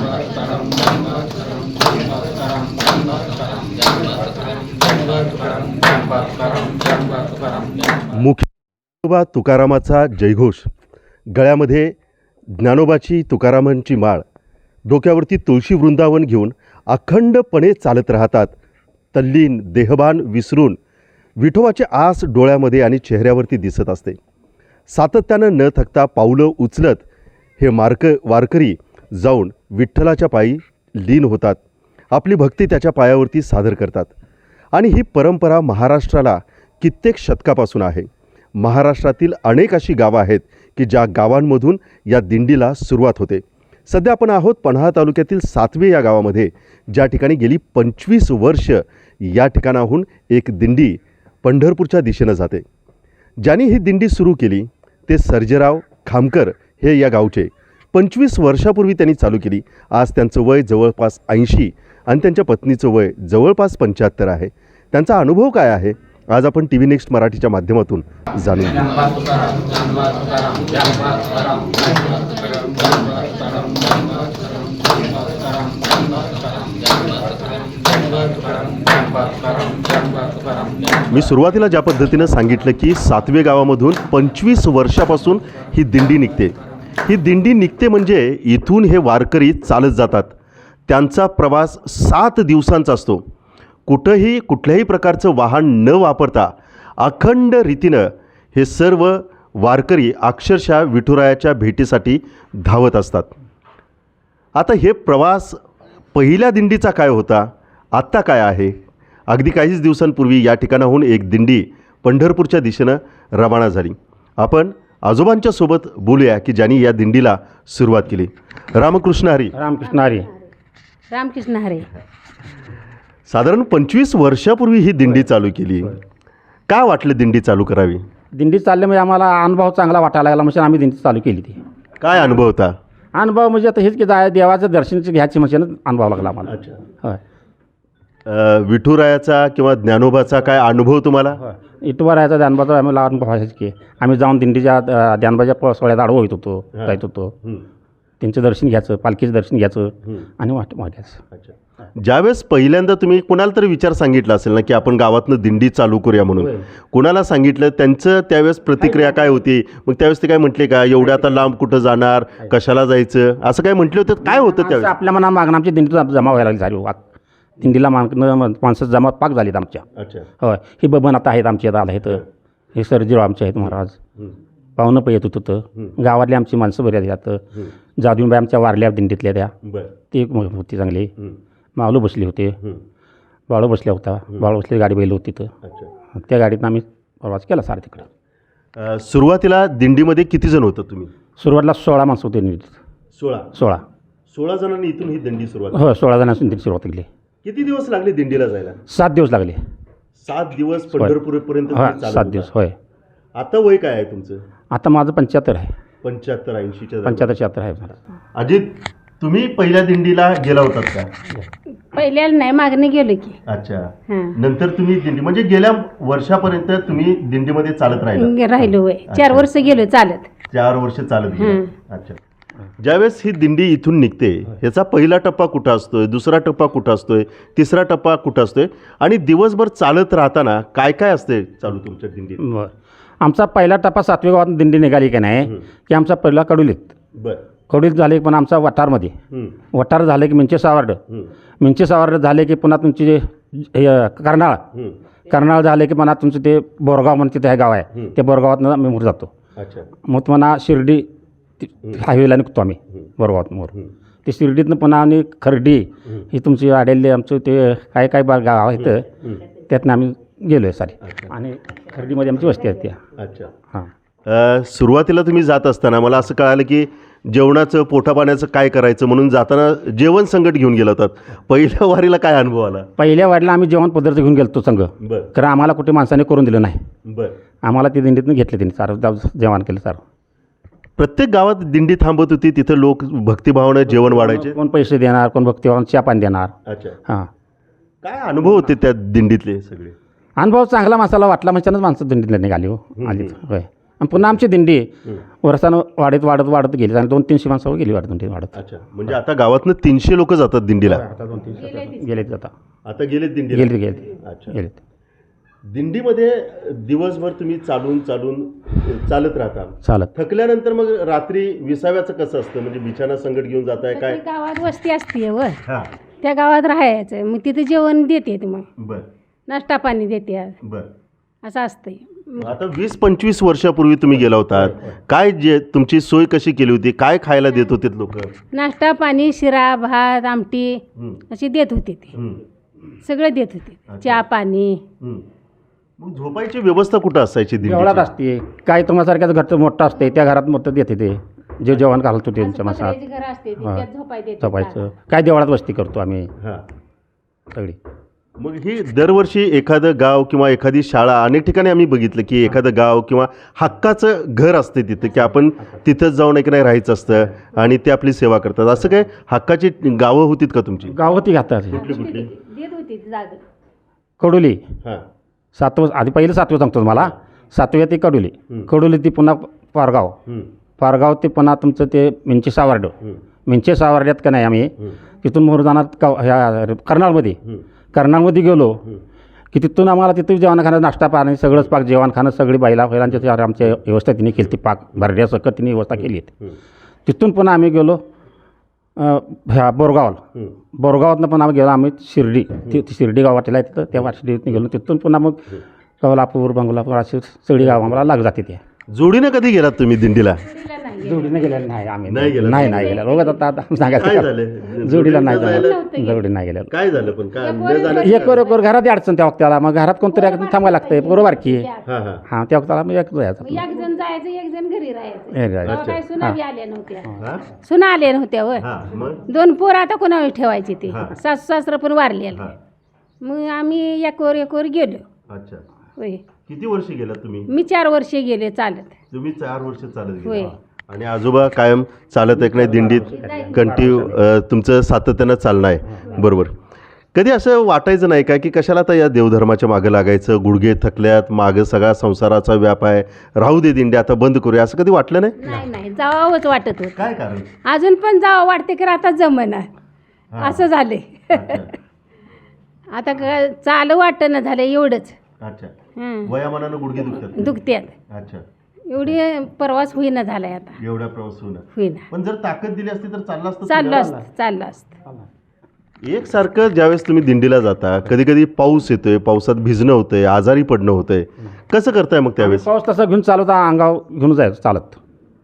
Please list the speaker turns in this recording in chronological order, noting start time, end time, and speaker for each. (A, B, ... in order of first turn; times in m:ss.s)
0:08.1-0:08.5 A
0:09.0-0:10.7 A
0:11.3-0:12.0 A
0:12.5-0:14.2 A
0:14.9-0:18.5 A
0:19.1-0:20.8 A
0:21.4-0:24.2 A
0:24.9-0:27.0 A
0:27.6-0:31.6 A
0:32.1-0:34.1 A
0:34.7-0:52.6 A
0:53.4-1:08.8 A
1:21.1-1:26.5 A
1:27.1-1:30.4 A
1:30.9-1:33.2 A
1:33.9-1:43.3 A
1:44.6-1:45.6 A
1:46.2-1:48.8 A
1:49.3-1:59.5 A
1:59.5-2:00.3 B
1:59.8-2:00.4 C
2:01.1-2:01.9 C
2:03.3-2:06.0 A
2:06.7-2:08.0 A
2:08.4-2:11.6 B
2:12.0-2:12.8 A
2:13.2-2:17.2 B
2:16.5-2:16.8 A
2:18.3-2:21.4 A
2:21.4-2:27.4 B
2:26.7-2:27.7 A
2:28.2-2:31.2 B
2:31.3-2:44.9 A
2:36.4-2:36.7 B
2:44.5-2:47.0 B
2:47.6-2:49.8 B
2:50.0-2:50.3 A
2:50.4-2:52.2 B
2:52.8-2:54.0 B
2:53.6-2:54.4 A
2:54.8-2:57.4 B
2:58.0-2:59.5 B
2:59.6-3:00.0 A
3:00.0-3:01.1 B
3:01.8-3:02.6 B
3:03.5-3:05.5 B
3:05.6-3:05.9 A
3:06.1-3:08.1 B
3:08.8-3:11.1 A
3:11.4-3:12.7 B
3:13.1-3:13.5 A
3:13.5-3:13.8 B
3:14.3-3:15.8 A
3:15.7-3:17.1 B
3:17.4-3:18.8 A
3:18.9-3:19.6 B
3:20.2-3:22.5 A
3:21.7-3:22.8 B
3:23.4-3:24.4 A
3:24.7-3:25.7 B
3:26.0-3:27.3 A
3:27.0-3:28.0 B
3:28.4-3:31.1 A
3:31.9-3:33.4 C
3:33.5-3:38.3 A
3:34.1-3:34.4 C
3:38.1-3:40.3 C
3:39.1-3:39.5 A
3:40.5-3:42.2 A
3:41.4-3:41.7 C
3:42.8-3:52.4 A
3:52.4-3:52.7 B
3:53.2-3:56.9 B
3:57.2-3:57.4 A
3:57.7-3:59.1 B
3:59.3-3:59.6 A
3:59.7-4:01.0 B
4:01.6-4:04.6 B
4:04.7-4:05.0 A
4:05.3-4:09.3 B
4:09.6-4:09.9 A
4:10.0-4:11.1 B
4:11.6-4:13.7 B
4:14.2-4:23.0 B
4:18.8-4:19.4 A
4:21.0-4:21.3 A
4:23.2-4:23.5 A
4:24.3-4:32.9 A
4:33.0-4:36.8 B
4:35.0-4:35.3 A
4:37.0-4:37.4 A
4:37.6-4:40.0 B
4:41.0-4:44.6 A
4:43.9-4:46.5 B
4:46.7-4:47.0 A
4:48.0-4:50.0 A
4:50.4-4:54.9 B
4:53.0-4:53.3 A
4:55.4-4:58.6 B
4:58.6-5:01.0 A
5:00.8-5:02.5 B
5:01.5-5:02.1 C
5:02.8-5:04.5 A
5:03.5-5:04.8 B
5:05.7-5:14.2 A
5:09.8-5:10.1 B
5:13.8-5:15.6 C
5:15.6-5:15.9 A
5:16.2-5:18.7 C
5:18.8-5:19.1 A
5:19.5-5:20.6 C
5:20.6-5:20.9 A
5:21.4-5:22.5 C
5:22.4-5:28.3 A
5:28.5-5:32.1 C
5:32.2-5:32.4 A
5:33.0-5:34.8 C
5:33.9-5:34.2 A
5:35.0-5:35.3 A
5:36.0-5:38.1 A
5:37.6-5:43.0 B
5:42.4-5:44.8 C
5:44.4-5:46.3 B
5:46.4-5:46.7 A
5:48.4-6:00.9 A
6:00.9-6:01.8 B
6:01.7-6:02.3 A
6:01.7-6:03.4 C
6:04.2-6:04.6 B
6:05.6-6:10.2 B
6:10.3-6:10.5 A
6:10.8-6:12.9 B
6:13.5-6:17.4 B
6:17.9-6:18.8 B
6:19.5-6:26.5 B
6:27.1-6:28.0 B
6:29.0-6:30.2 B
6:30.8-6:38.6 B
6:38.9-6:40.4 A
6:40.4-6:41.4 C
6:41.0-6:46.7 B
6:42.1-6:43.0 A
6:42.5-6:43.4 C
6:44.0-6:45.8 A
6:45.3-6:46.2 C
6:46.7-6:48.3 A
6:47.4-6:48.6 C
6:47.9-6:51.7 B
6:50.1-6:51.8 C
6:51.8-6:52.2 A
6:52.3-6:53.6 B
6:53.4-6:58.7 C
6:55.3-6:56.4 B
6:57.2-6:57.4 A
6:58.6-6:59.2 A
6:59.3-7:02.5 C
7:03.2-7:05.0 C
7:05.3-7:05.6 A
7:06.5-7:07.5 A
7:07.5-7:09.0 C
7:09.1-7:16.6 A
7:10.2-7:10.6 C
7:12.3-7:14.2 B
7:12.8-7:13.9 C
7:15.9-7:16.2 B
7:17.1-7:25.4 A
7:25.4-7:27.0 C
7:27.0-7:27.5 A
7:27.7-7:29.7 C
7:30.4-7:30.7 A
7:30.4-7:31.7 C
7:31.3-7:31.7 A
7:32.9-7:35.2 C
7:35.4-7:35.7 A
7:36.0-7:36.3 C
7:36.3-7:37.4 A
7:37.0-7:38.0 C
7:38.1-7:38.4 A
7:38.9-7:40.8 C
7:40.8-7:44.1 A
7:41.8-7:42.1 C
7:43.7-7:44.9 C
7:46.0-7:52.7 A
7:52.4-7:55.0 B